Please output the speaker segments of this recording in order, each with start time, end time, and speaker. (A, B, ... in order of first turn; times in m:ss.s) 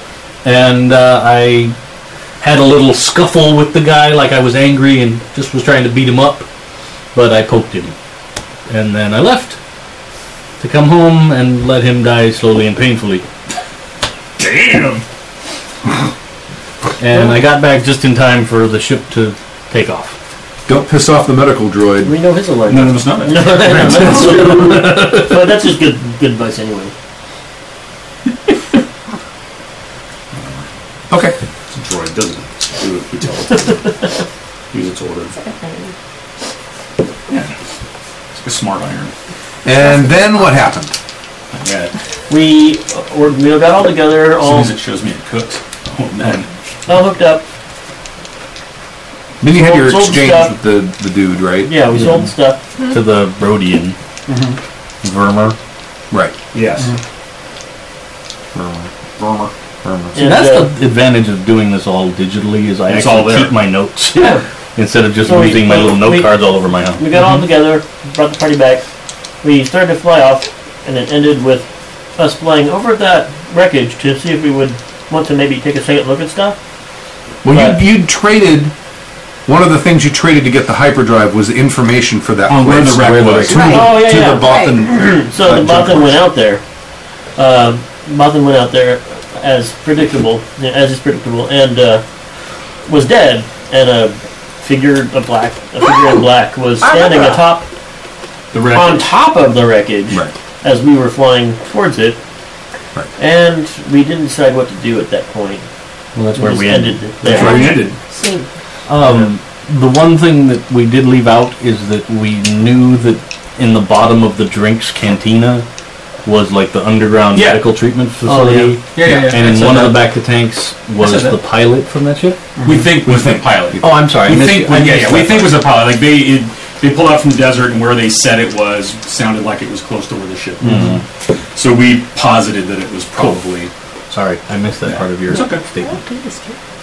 0:00.4-0:01.8 A
0:02.4-0:06.5 A
0:07.1-0:08.0 A
0:08.7-0:09.6 A
0:10.6-0:13.3 A
0:14.4-0:15.0 B
0:17.0-0:20.2 A
0:17.1-0:17.4 C
0:20.7-0:22.1 D
0:22.0-0:26.9 C
0:22.7-0:24.3 B
0:24.1-0:25.3 A
0:30.4-0:30.6 B
0:31.1-0:31.4 D
0:31.7-0:34.1 B
0:34.7-0:35.3 B
0:35.3-0:35.9 E
0:38.3-0:39.1 B
0:39.6-0:40.9 D
0:39.8-0:40.2 E
0:41.5-0:41.9 B
0:42.3-0:44.7 C
0:44.4-0:46.5 B
0:46.9-0:47.4 C
0:49.4-0:51.7 D
0:49.4-0:50.6 C
0:51.6-0:52.6 C
0:51.9-0:52.3 A
0:52.9-0:54.0 A
0:55.0-0:55.6 A
0:56.5-0:56.9 B
0:58.6-1:00.2 B
1:00.2-1:00.7 C
1:00.2-1:07.0 A
1:02.9-1:03.6 B
1:04.1-1:04.4 C
1:05.2-1:08.8 C
1:09.4-1:16.6 C
1:17.4-1:18.7 D
1:17.5-1:17.8 C
1:19.5-1:26.3 D
1:22.5-1:23.9 B
1:23.5-1:24.9 E
1:23.6-1:26.6 C
1:27.4-1:32.0 C
1:32.9-1:37.7 C
1:38.5-1:39.2 B
1:38.7-1:42.2 C
1:43.2-1:45.7 C
1:46.2-1:47.6 A
1:46.4-1:47.8 C
1:47.2-1:48.0 B
1:47.3-1:48.5 E
1:48.9-1:55.7 A
1:49.0-1:49.3 C
1:56.2-2:02.4 A
1:57.3-1:57.7 B
1:58.2-1:58.8 C
1:58.9-2:00.1 B
2:01.0-2:01.4 B
2:02.6-2:02.9 C
2:02.6-2:11.0 B
2:03.0-2:04.0 D
2:03.8-2:05.6 A
2:10.6-2:11.0 A
2:11.5-2:13.7 B
2:13.2-2:13.4 A
2:14.1-2:15.9 A
2:14.8-2:15.6 B
2:15.3-2:16.6 E